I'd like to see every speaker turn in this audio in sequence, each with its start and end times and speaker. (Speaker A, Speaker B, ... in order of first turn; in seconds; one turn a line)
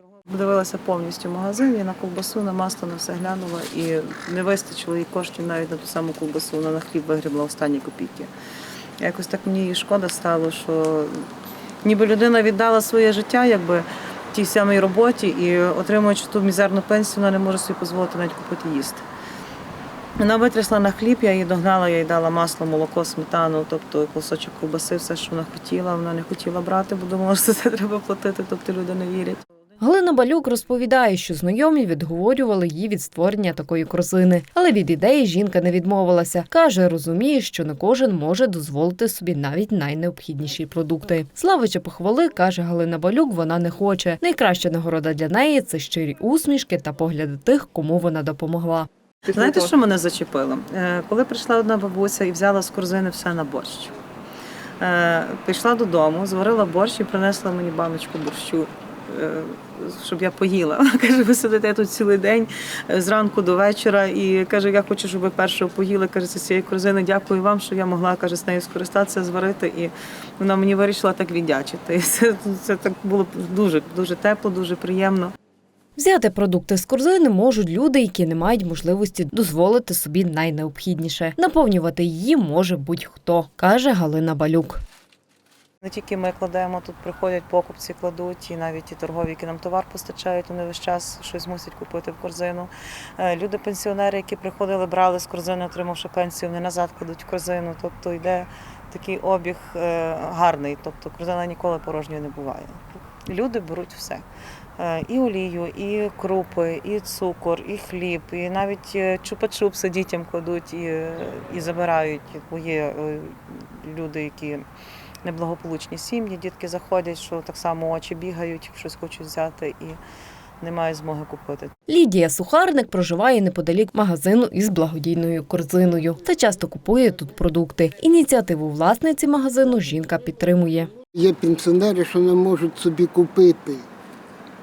Speaker A: 0.3-8.3
Speaker A: 9.0-11.3
Speaker A: 11.8-19.0
Speaker A: 20.2-29.4
Speaker B: 29.8-48.9
Speaker A: 49.3-54.0
Speaker A: 54.8-75.3
Speaker B: 76.0-84.8
Speaker A: 85.8-104.2
Speaker A: 104.8-114.7
Speaker A: 115.2-120.0
Speaker A: 120.6-121.7
Speaker B: 121.9-130.9
Speaker C: 131.1-133.8